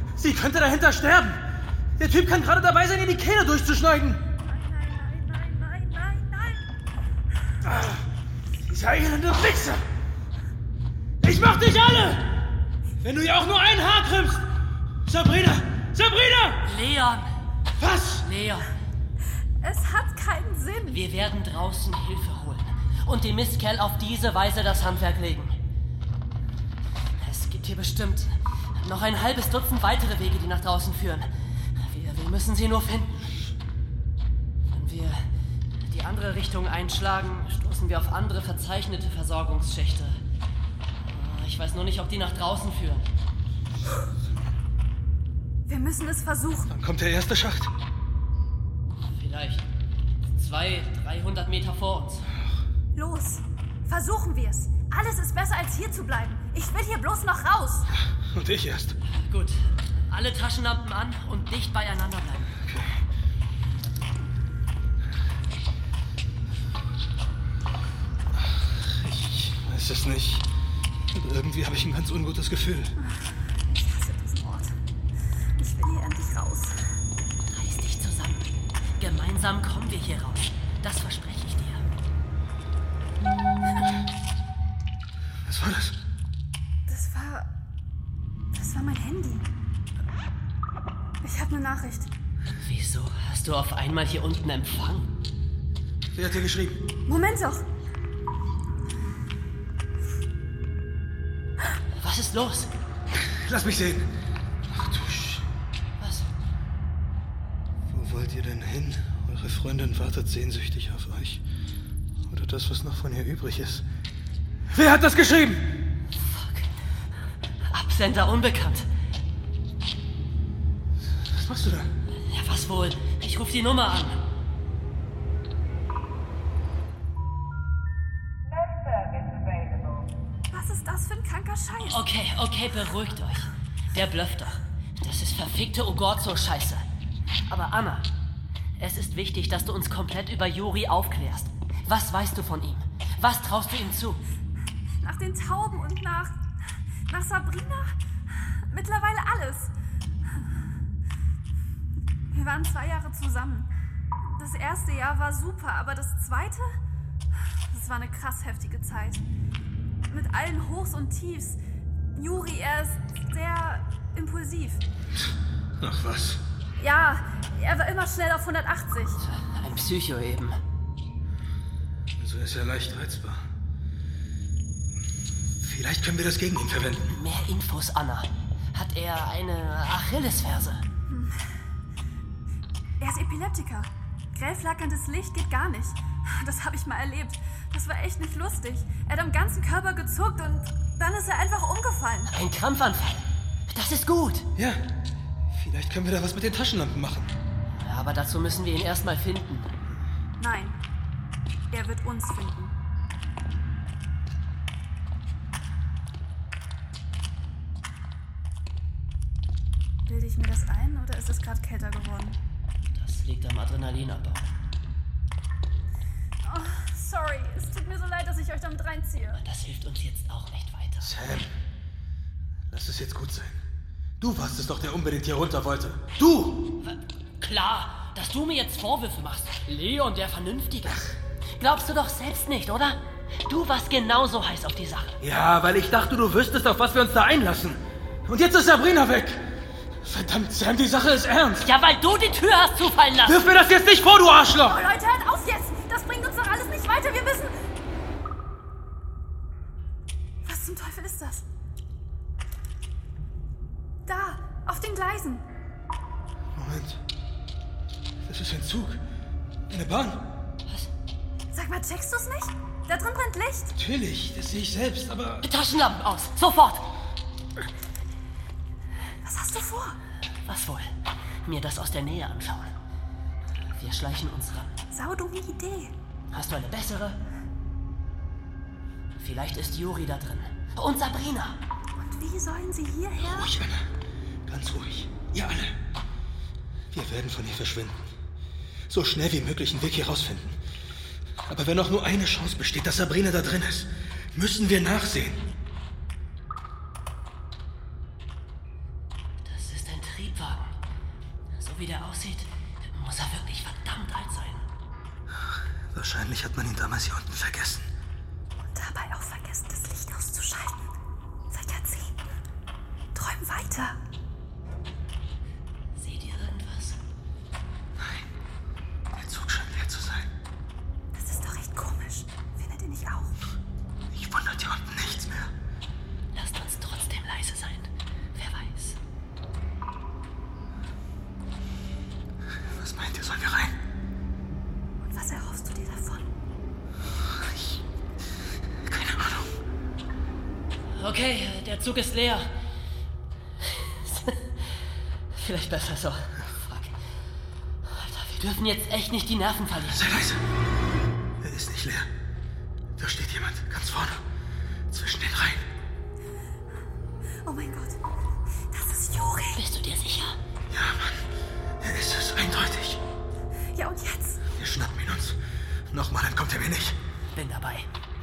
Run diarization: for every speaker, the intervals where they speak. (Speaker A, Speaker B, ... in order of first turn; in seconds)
Speaker A: 0.2-1.4, 2.0-4.2, 7.7-8.0, 8.6-9.8, 11.2-12.4, 13.0-14.4, 15.1-16.6, 17.8-18.2, 46.7-47.7, 58.1-59.0, 62.6-62.9, 68.3-70.5, 71.1-72.9, 85.5-86.0, 96.1-96.8, 103.2-104.1, 104.7-105.4, 107.9-111.4, 112.3-113.8, 114.7-115.8, 121.3-121.9, 165.8-166.4, 172.2-173.4, 175.6-177.2, 194.6-194.8, 195.5-197.3, 221.0-221.5, 222.7-223.6, 224.2-226.7, 235.2-239.4, 240.0-241.7, 243.2-244.8, 256.5-257.0, 258.2-259.0, 259.7-260.3, 263.8-265.5, 283.2-283.8, 284.5-285.8, 286.9-288.0, 288.9-290.6, 291.5-295.4, 305.9-307.9, 318.0-318.3, 319.1-320.3, 324.1-325.5, 332.7-333.7, 338.9-339.5, 349.9-350.4, 351.4-352.1, 353.0-354.2, 354.9-355.6, 360.7-361.2, 361.8-363.0, 364.6-365.4, 365.9-367.0
Speaker B: 4.4-6.6, 19.6-21.0, 45.7-46.7, 52.9-57.9, 73.0-74.7, 75.6-76.8, 86.9-87.5, 88.5-89.5, 91.2-92.1, 97.1-97.6, 130.5-132.0, 145.0-146.3, 147.1-147.9, 148.7-149.7, 152.3-153.7, 154.2-156.7, 157.7-159.2, 160.1-161.6, 162.1-164.8, 166.8-169.2, 181.1-181.4, 183.0-192.3, 200.4-200.8, 201.7-202.7, 210.1-212.4, 216.4-219.4, 244.7-247.5, 250.4-251.4, 254.1-255.4, 261.5-263.7, 269.2-270.0, 274.9-275.9, 282.0-283.4, 308.7-310.8, 311.5-312.1, 313.1-314.0, 321.1-323.4, 335.1-336.2, 357.4-358.0, 358.7-359.6, 363.7-364.4
Speaker C: 16.6-17.3, 18.2-18.7, 20.9-25.5, 27.2-31.3, 31.9-33.2, 34.7-35.2, 35.9-40.2, 41.0-43.1, 49.1-49.6, 50.4-52.2, 59.2-62.5, 77.5-81.8, 92.6-95.1, 102.0-102.7, 106.0-106.3, 116.2-116.7, 117.7-118.9, 122.3-124.2, 131.8-136.8, 137.5-138.1, 138.8-144.2, 169.2-170.6, 177.1-180.8, 192.3-194.4, 197.8-199.7, 212.9-214.4, 219.3-221.1, 226.8-235.2, 241.6-243.4, 265.4-266.9, 270.4-270.9, 271.4-272.7, 273.7-274.7, 276.3-277.2, 279.2-281.6, 299.4-300.7, 301.5-304.6, 315.9-317.0, 326.3-329.0, 340.9-342.5, 343.8-344.4, 345.3-346.9, 347.9-350.1, 359.6-360.4, 367.3-367.9